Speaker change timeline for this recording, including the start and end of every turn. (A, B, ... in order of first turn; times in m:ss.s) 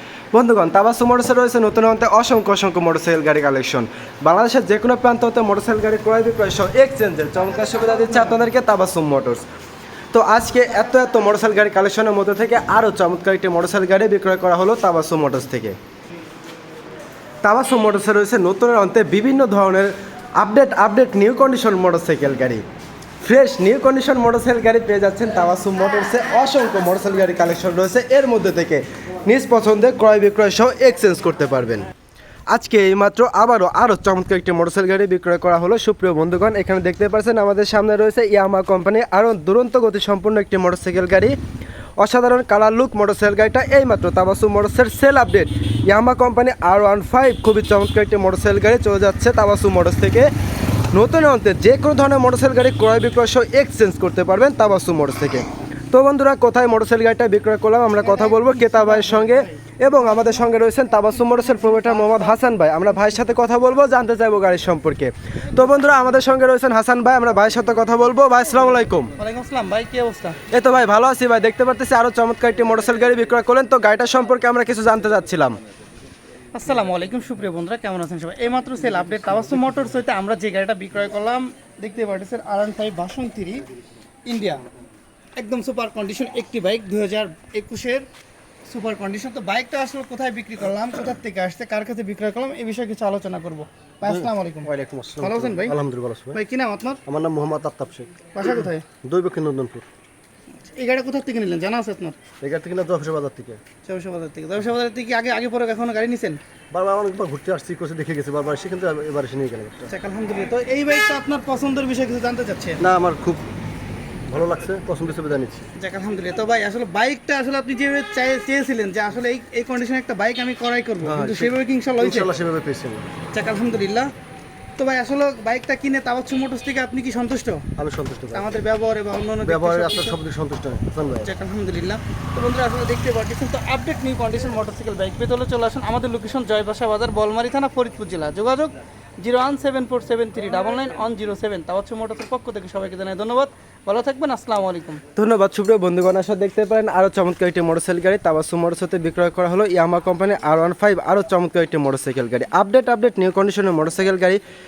0:00.3-0:09.4 A
0:10.1-0:15.8 A
0:17.4-0:22.6 A
0:23.2-0:31.9 A
0:32.5-0:41.3 A
0:42.0-0:50.3 A
0:50.9-1:09.1 A
0:58.2-0:59.4 B
1:01.5-1:02.3 B
1:09.2-1:10.4 B
1:10.5-1:15.6 A
1:16.5-1:23.6 B
1:24.3-1:24.6 B
1:25.4-1:28.0 B
1:28.7-1:34.7 B
1:34.0-1:36.4 C
1:35.2-1:35.8 B
1:36.3-1:37.0 B
1:37.1-1:38.2 C
1:38.3-1:38.8 B
1:39.0-1:39.8 C
1:40.8-1:42.2 B
1:42.4-1:43.6 C
1:43.8-1:46.4 B
1:46.7-1:49.9 C
1:49.9-1:52.8 B
1:52.8-1:53.4 C
1:54.3-1:55.7 C
1:55.8-2:02.3 B
2:01.0-2:03.1 C
2:03.3-2:04.1 B
2:04.8-2:07.6 B
2:07.8-2:08.5 C
2:08.3-2:10.2 B
2:09.4-2:11.3 C
2:11.2-2:25.0 B
2:25.2-2:34.4 A